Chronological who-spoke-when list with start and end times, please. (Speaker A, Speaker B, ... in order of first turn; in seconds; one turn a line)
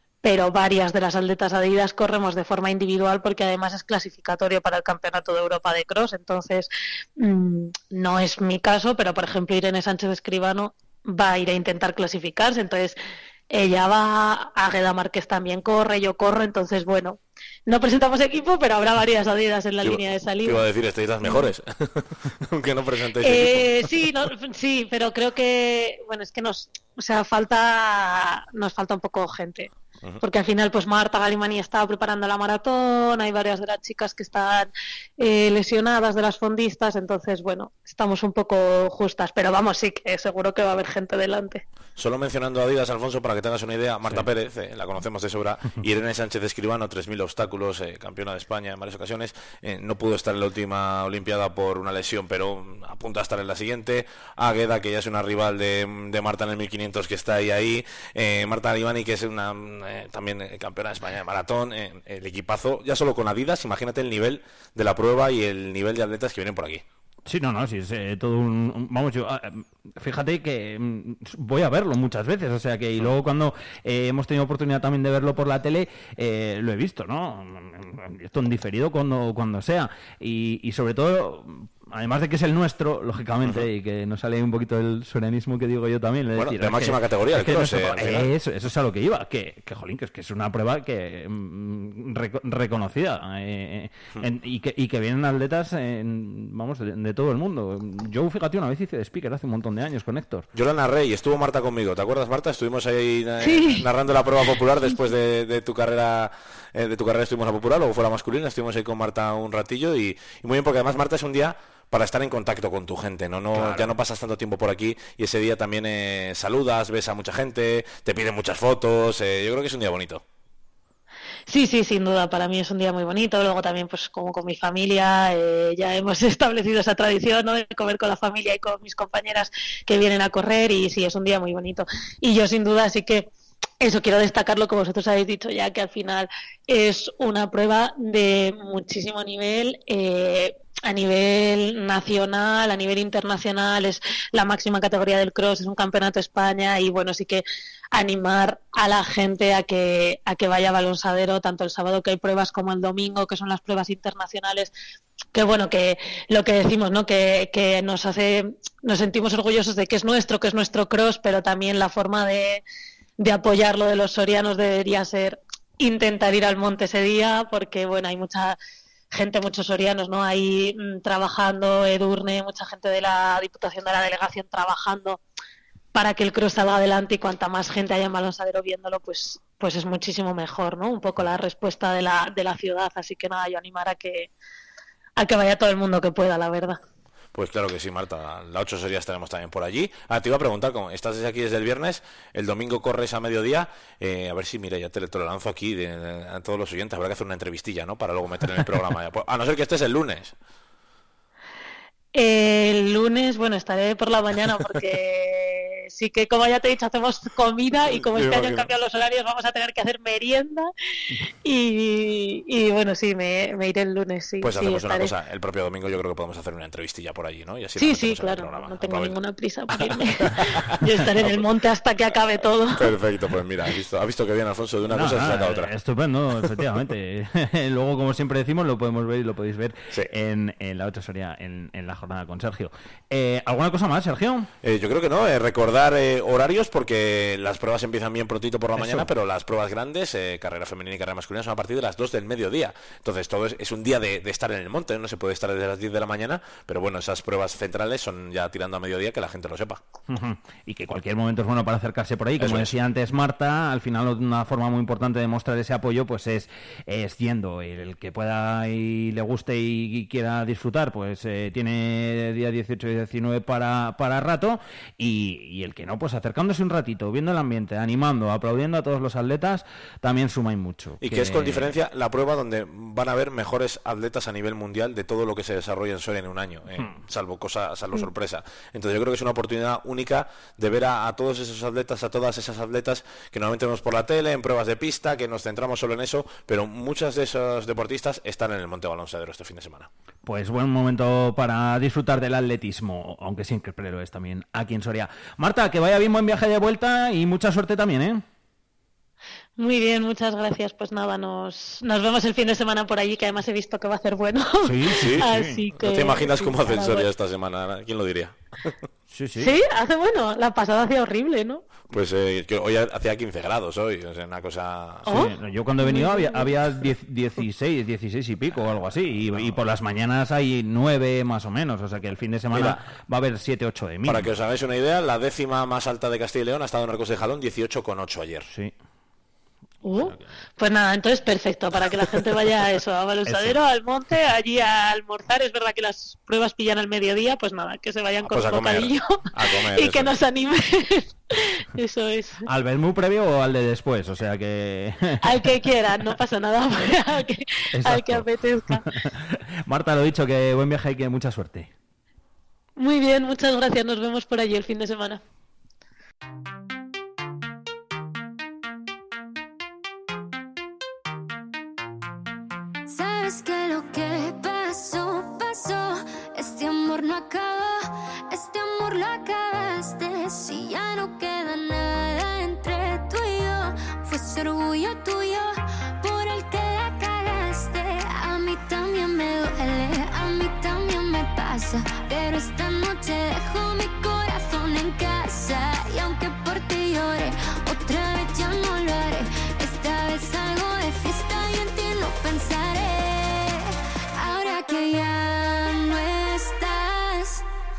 Speaker A: 0.2-13.0
Speaker A: 13.5-21.5
Speaker B: 19.9-23.6
Speaker A: 23.2-41.6
Speaker B: 42.0-66.8
Speaker C: 67.3-100.5
Speaker B: 86.3-88.3
Speaker B: 100.5-120.2
Speaker A: 103.4-105.0
Speaker C: 113.5-113.9
Speaker A: 121.5-133.3
Speaker A: 133.8-154.7
Speaker A: 155.3-162.6
Speaker A: 163.2-168.6
Speaker A: 169.1-175.2
Speaker A: 175.9-184.3
Speaker A: 185.2-186.8
Speaker B: 187.3-200.3
Speaker A: 202.1-210.7
Speaker B: 208.1-208.7
Speaker A: 211.4-215.1
Speaker B: 214.4-219.2
Speaker A: 217.8-223.0
Speaker B: 222.8-225.7
Speaker C: 224.9-234.5
Speaker B: 234.6-249.8
Speaker C: 238.8-239.1
Speaker C: 250.1-271.8
Speaker B: 252.4-252.8
Speaker B: 271.0-289.9
Speaker C: 276.8-277.0
Speaker C: 290.3-298.2
Speaker A: 299.6-307.1
Speaker C: 304.6-305.6
Speaker B: 305.8-308.7
Speaker C: 309.1-309.5
Speaker A: 309.4-311.6
Speaker B: 311.9-315.2
Speaker A: 315.1-316.5
Speaker C: 315.1-324.3
Speaker B: 319.3-319.6
Speaker B: 322.5-322.8
Speaker B: 324.1-328.5
Speaker C: 328.5-328.7
Speaker A: 329.8-342.5
Speaker C: 333.3-333.6
Speaker B: 338.3-340.1
Speaker C: 342.5-346.1
Speaker A: 345.2-348.8
Speaker C: 347.8-348.3
Speaker C: 348.8-351.7
Speaker A: 352.8-355.2
Speaker D: 362.9-397.4